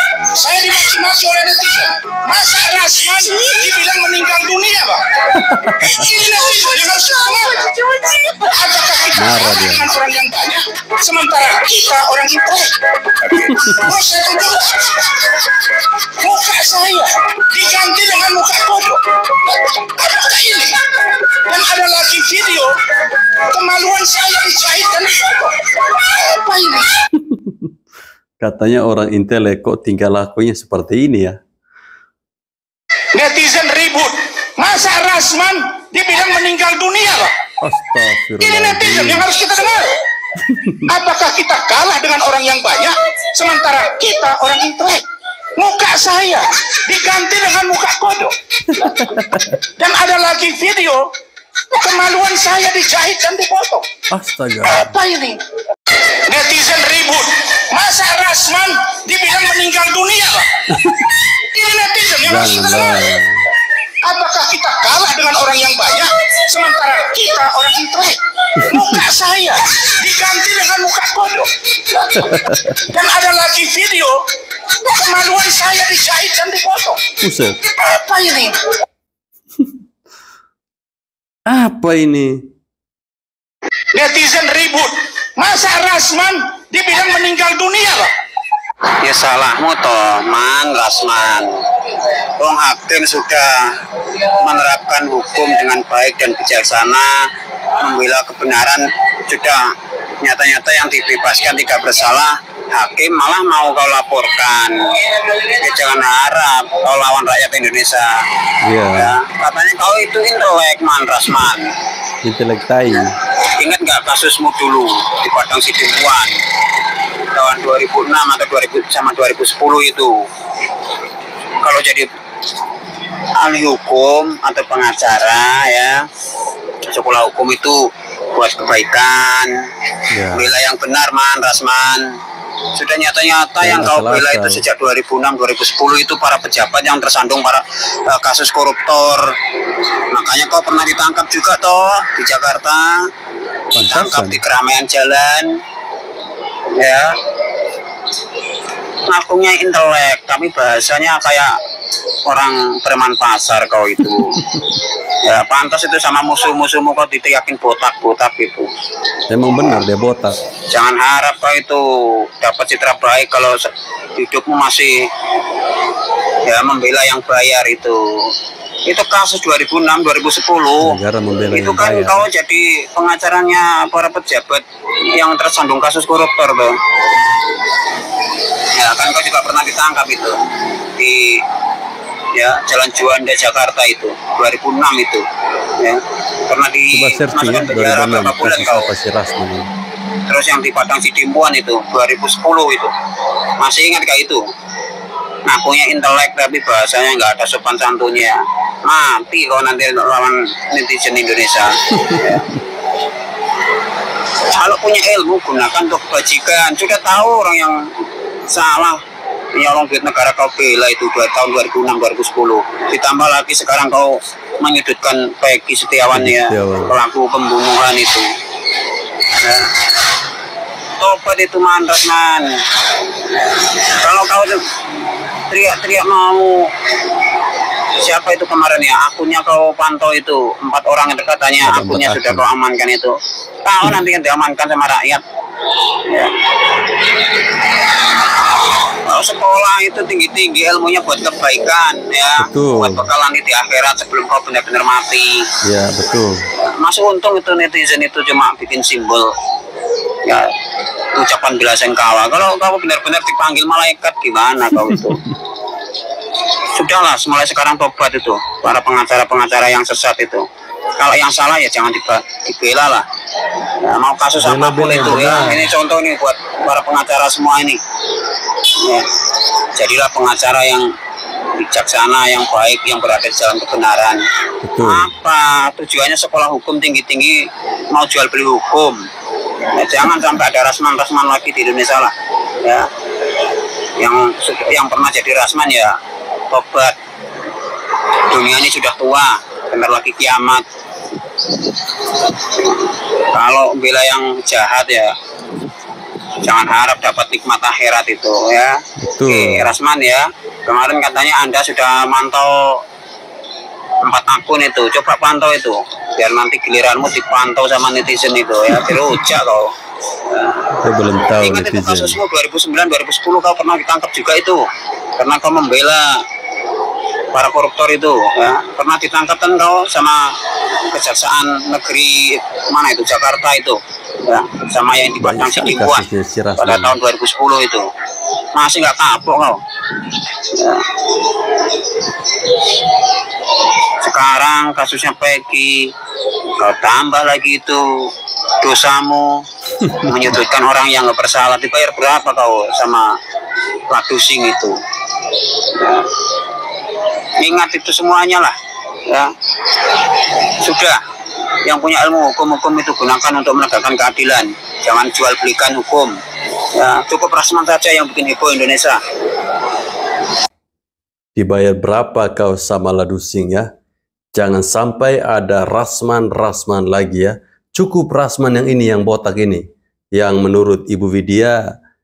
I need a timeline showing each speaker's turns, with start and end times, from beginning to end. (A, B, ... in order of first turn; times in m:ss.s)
0:00.3-0:05.0 A
0:05.4-0:05.9 B
0:05.8-0:12.7 A
0:09.2-0:09.9 B
0:13.6-0:15.2 A
0:16.2-0:19.0 A
0:20.0-0:20.8 A
0:21.5-0:22.7 A
0:23.5-0:27.0 A
0:27.2-0:27.7 B
0:28.4-0:31.4 B
0:33.1-0:37.3 A
0:37.6-0:39.3 B
0:38.4-0:39.9 A
0:40.4-0:40.9 B
0:40.9-0:45.0 A
0:45.6-0:48.3 A
0:48.7-0:49.6 B
0:49.8-0:51.1 A
0:51.7-0:53.9 A
0:54.1-0:55.0 B
0:54.7-0:55.4 A
0:56.3-1:00.5 A
1:00.7-1:01.1 B
1:01.5-1:03.0 A
1:02.2-1:03.5 B
1:04.0-1:12.0 A
1:12.2-1:12.8 B
1:12.9-1:14.2 A
1:14.8-1:17.0 A
1:17.2-1:17.6 B
1:17.7-1:18.6 A
1:21.5-1:22.4 B
1:23.9-1:28.1 A
1:29.0-1:31.5 C
1:32.4-1:33.5 C
1:34.4-1:37.1 C
1:37.8-1:39.7 C
1:40.2-1:48.0 C
1:48.6-1:49.2 B
1:49.0-1:51.7 C
1:52.2-1:53.2 B
1:53.6-1:56.4 C
1:57.3-2:00.1 C
2:01.6-2:02.1 C
2:03.4-2:06.0 C
2:06.9-2:09.5 C
2:10.1-2:10.5 B
2:10.3-2:12.0 C
2:12.7-2:19.3 C
2:13.6-2:14.6 B
2:20.1-2:22.9 C
2:23.7-2:24.4 B
2:23.8-2:25.5 C
2:26.8-2:27.2 C
2:29.1-2:31.5 C
2:32.2-2:34.4 C
2:35.2-2:38.7 C
2:39.3-2:40.4 B
2:40.7-2:44.9 C
2:46.5-2:48.3 C
2:48.9-2:50.9 C
2:50.8-2:52.3 B
2:51.5-2:56.7 C
2:58.8-3:00.4 C
3:01.0-3:01.4 C
3:02.3-3:05.2 C
3:05.8-3:08.9 C
3:06.9-3:09.7 B
3:10.3-3:12.9 C
3:13.6-3:14.4 C
3:15.4-3:22.4 C
3:22.0-3:22.5 B
3:24.5-3:27.8 C
3:28.5-3:29.0 C
3:29.6-3:38.2 C
3:36.1-3:37.0 B
3:39.4-3:39.8 C
3:41.0-3:42.5 C
3:44.0-3:44.6 C
3:45.5-3:46.7 C
3:48.0-3:55.2 C
3:51.6-3:52.5 B
3:56.1-3:56.7 C
3:59.1-4:05.5 C
4:02.4-4:03.0 B
4:05.6-4:06.5 B
4:06.8-4:09.3 C
4:11.2-4:15.2 C
4:15.0-4:15.3 B
4:16.8-4:20.4 C
4:21.0-4:23.0 C
4:23.8-4:27.8 C
4:24.4-4:25.7 B
4:29.8-4:30.9 C
4:31.6-4:34.2 C
4:34.6-4:35.1 B
4:34.8-4:39.0 C
4:39.8-4:42.9 C
4:44.0-4:45.9 C
4:46.5-4:47.0 C
4:48.3-4:50.6 C
4:52.6-4:55.1 C
4:56.4-4:58.8 C
4:59.0-4:59.8 B
4:59.3-5:02.8 C
5:04.1-5:09.7 C
5:10.3-5:10.7 C
5:10.8-5:12.2 B
5:11.4-5:14.6 C
5:15.2-5:16.2 C
5:17.3-5:20.3 C
5:20.9-5:26.0 C
5:25.2-5:27.0 B
5:26.6-5:27.9 C
5:28.5-5:29.6 C
5:30.5-5:30.8 C
5:34.0-5:35.9 C
5:36.6-5:37.8 C
5:38.6-5:39.4 C
5:40.0-5:43.1 C
5:43.9-5:44.8 C
5:45.8-5:46.1 C
5:47.4-5:48.5 C
5:50.6-5:51.0 C
5:51.6-5:56.1 C
5:56.8-5:59.0 C
6:01.4-6:03.7 B
6:04.3-6:11.6 B